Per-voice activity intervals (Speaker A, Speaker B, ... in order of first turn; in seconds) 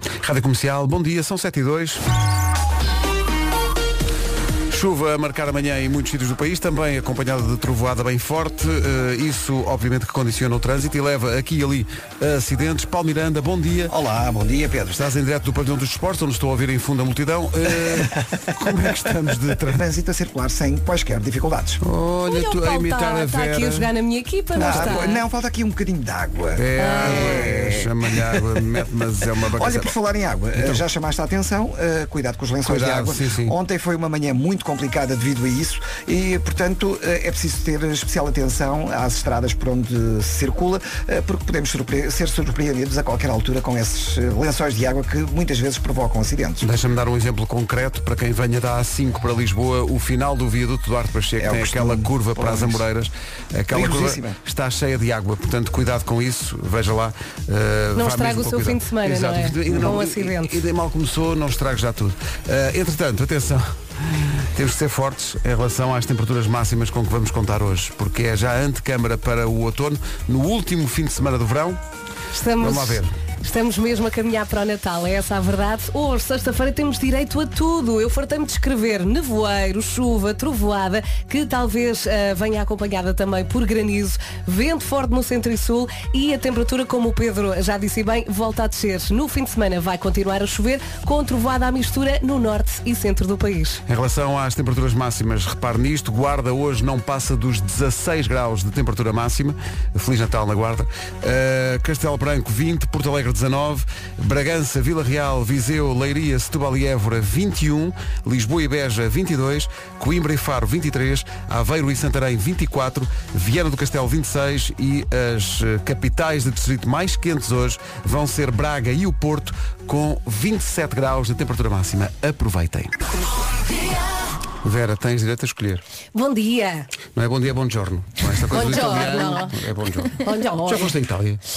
Speaker A: 0.2-2.0, 4.7-13.9, 14.9-19.8, 21.8-23.9, 24.6-25.2, 26.6-29.9, 30.6-30.8, 32.6-33.5, 46.6-71.8, 72.6-73.1, 93.9-123.0, 124.6-125.8, 127.1-131.4
Speaker B: 13.9-14.9, 17.8-18.8, 19.6-21.8, 24.6-28.7, 29.5-46.7, 51.4-52.8, 53.7-54.4
Speaker C: 22.3-25.2, 26.8-27.5, 58.0-60.5, 72.3-93.8, 126.1-126.9, 128.5-129.5, 130.2-131.0